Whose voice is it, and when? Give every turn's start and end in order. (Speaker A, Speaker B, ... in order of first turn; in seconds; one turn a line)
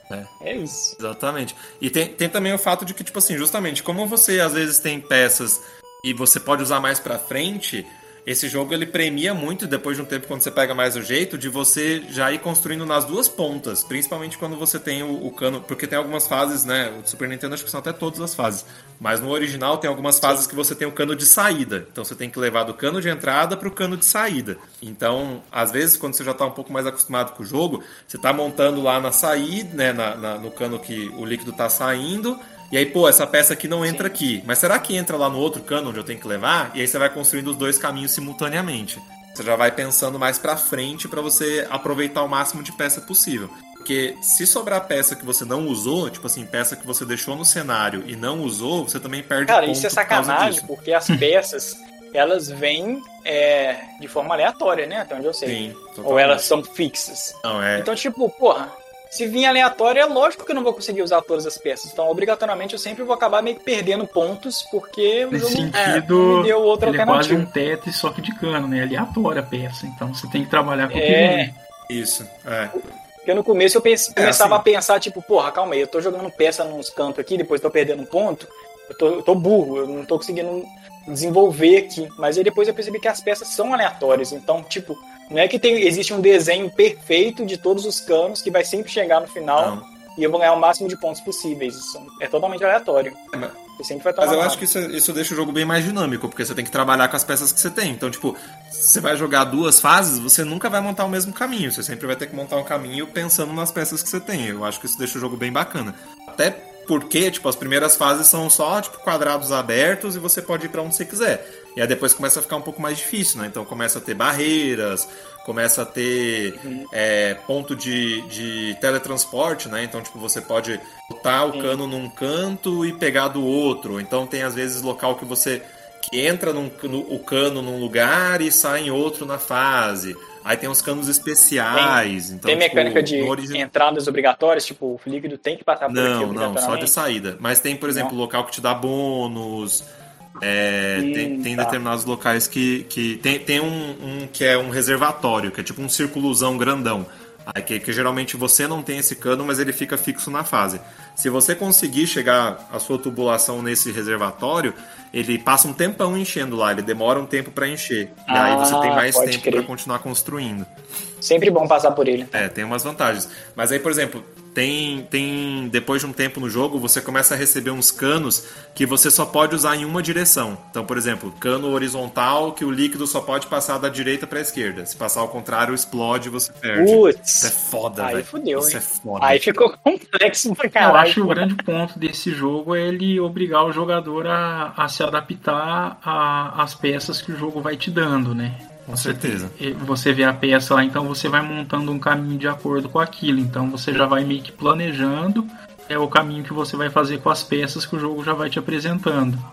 Speaker A: 0.4-1.0
Speaker B: 1.0-50.7
Speaker A: 20.2-20.5
Speaker A: 33.8-34.2
Speaker A: 49.5-67.5
Speaker B: 55.4-56.5
Speaker B: 57.4-57.9
Speaker C: 65.3-71.5
Speaker A: 70.9-71.5
Speaker B: 71.9-72.7
Speaker A: 72.7-93.2
Speaker B: 74.2-74.6
Speaker B: 89.5-89.9
Speaker A: 93.8-94.6
Speaker B: 94.2-133.6
Speaker A: 116.5-116.9
Speaker A: 121.5-121.8
Speaker A: 131.7-136.9
Speaker B: 135.9-139.9
Speaker B: 140.4-160.7
Speaker A: 140.9-141.8
Speaker A: 158.3-159.7
Speaker A: 161.2-162.4
Speaker B: 162.3-179.4
Speaker A: 176.7-181.4
Speaker C: 180.8-199.4
Speaker B: 188.9-189.5